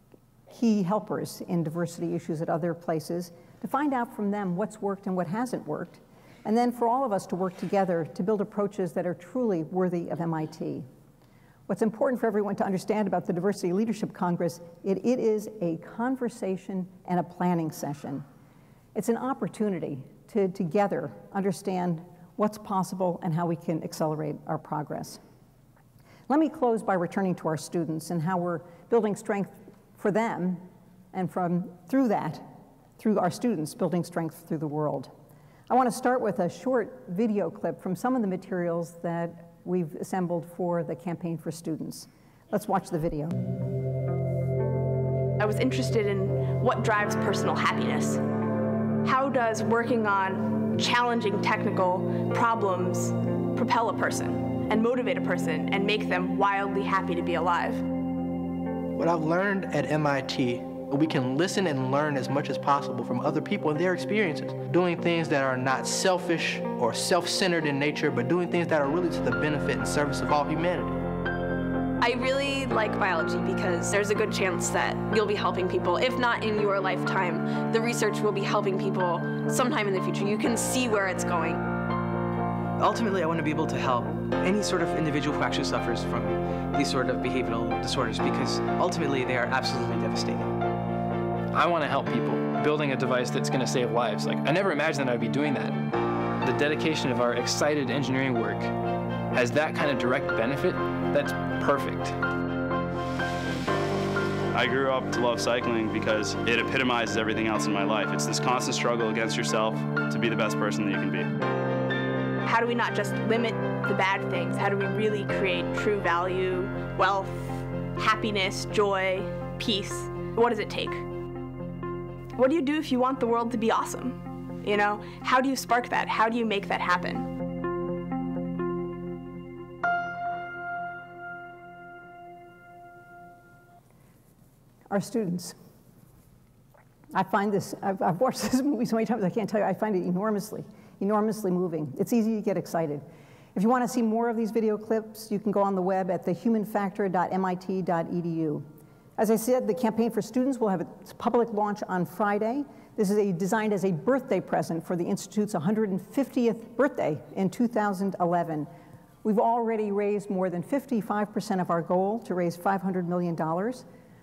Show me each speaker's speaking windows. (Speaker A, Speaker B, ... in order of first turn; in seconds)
Speaker A: 0.5-10.9, 11.7-18.2, 18.9-25.2, 26.3-35.1, 35.7-43.4, 134.9-135.6, 137.1-148.7, 149.2-158.7, 159.2-163.8
Speaker B: 45.4-48.2, 49.0-57.8, 112.4-121.1, 122.3-127.3
Speaker C: 58.9-71.0
Speaker D: 72.0-81.6
Speaker E: 82.8-90.5
Speaker F: 91.5-98.7, 99.3-102.2
Speaker G: 104.5-111.3